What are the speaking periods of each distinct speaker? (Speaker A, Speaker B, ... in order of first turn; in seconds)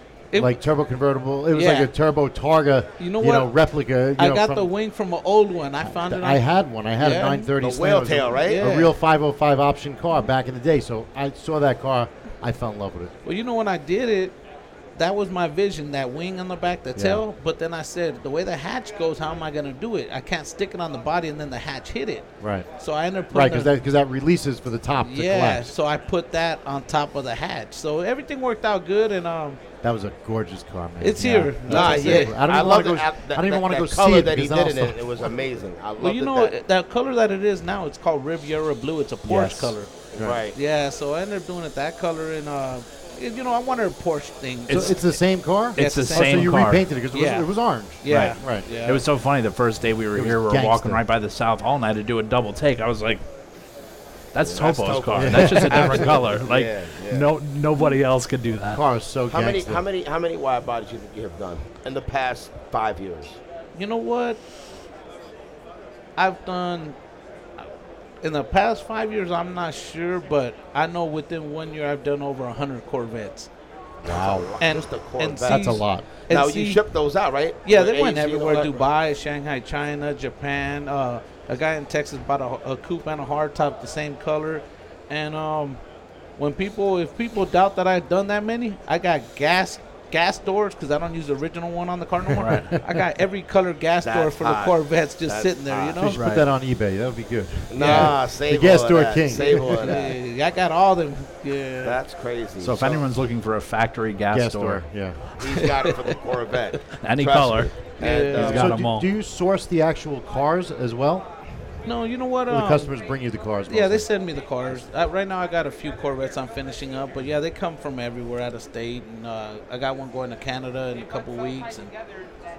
Speaker A: 0.3-0.6, 1.5-1.9, 3.0-3.5, 4.2-6.4, 7.0-7.5, 8.4-9.0, 13.2-14.4, 14.9-23.7, 25.0-29.6, 31.0-32.4, 36.0-45.2, 45.8-46.6, 47.1-47.5, 48.0-49.0, 63.8-64.4, 66.2-67.0, 68.2-73.5, 74.6-76.8, 77.7-85.8, 86.4-96.2, 97.8-98.2, 99.5-102.0, 105.5-106.1, 108.0-108.6, 111.8-113.0, 113.7-122.0
Speaker B: 0.4-4.7, 6.0-13.1, 17.0-17.2, 22.4-22.7, 23.3-25.7, 29.8-35.2, 44.7-48.6, 50.1-51.0, 55.2-55.9, 58.7-59.8, 74.1-74.5, 75.5-76.0, 96.0-100.0, 104.3-105.2, 108.4-111.3, 112.5-114.0
Speaker C: 7.6-8.8, 31.6-36.5, 40.1-40.6, 54.4-57.3, 59.3-63.4, 74.0-78.9, 94.0-96.0, 97.7-100.2, 101.8-103.1, 105.4-108.8
Speaker D: 39.3-39.7, 45.8-46.9, 48.0-53.2, 54.3-58.8, 92.3-92.8, 96.1-96.5, 102.6-104.8, 107.0-109.1